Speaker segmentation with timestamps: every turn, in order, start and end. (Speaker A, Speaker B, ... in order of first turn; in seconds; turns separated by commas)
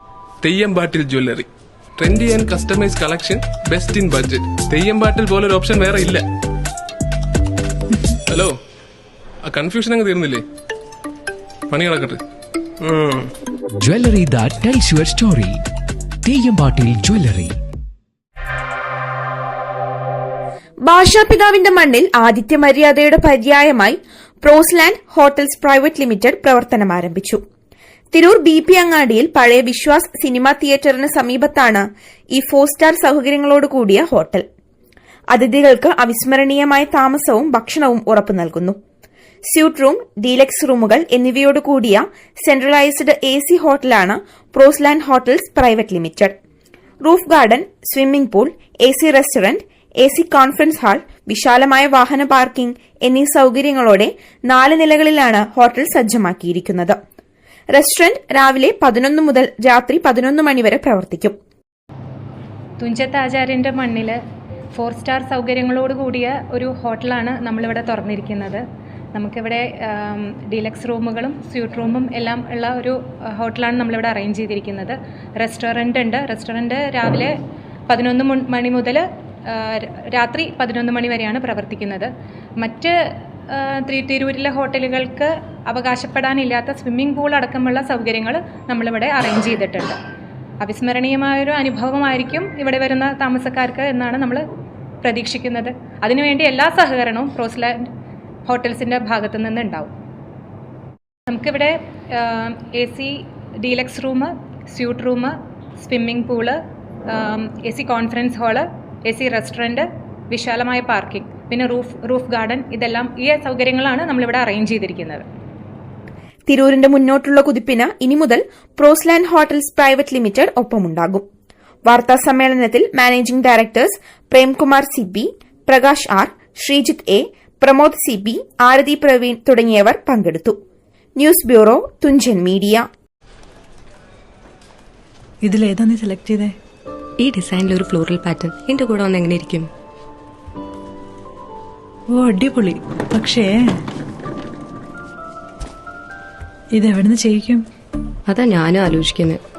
Speaker A: 0.4-1.4, Speaker A: 2.0-6.2, Speaker A: 9.5-10.4, Speaker A: 11.7-12.2, Speaker A: 12.8-13.3, Speaker B: 13.8-15.6, Speaker B: 16.2-17.6, Speaker C: 20.8-27.4, Speaker C: 28.1-31.8, Speaker C: 32.4-34.5, Speaker C: 35.3-38.8, Speaker C: 39.4-46.3, Speaker C: 47.0-57.0, Speaker C: 57.7-61.3, Speaker D: 62.8-64.2, Speaker D: 64.7-68.6, Speaker D: 69.1-77.3, Speaker D: 77.9-83.0, Speaker D: 83.5-90.0, Speaker D: 90.6-94.4, Speaker D: 95.0-97.8, Speaker D: 98.5-99.9, Speaker D: 101.3-115.2, Speaker C: 116.5-121.2, Speaker C: 121.8-130.6, Speaker C: 131.2-132.9, Speaker E: 135.4-136.5, Speaker F: 137.2-139.7, Speaker E: 142.1-143.8, Speaker E: 146.8-147.7, Speaker F: 148.3-149.4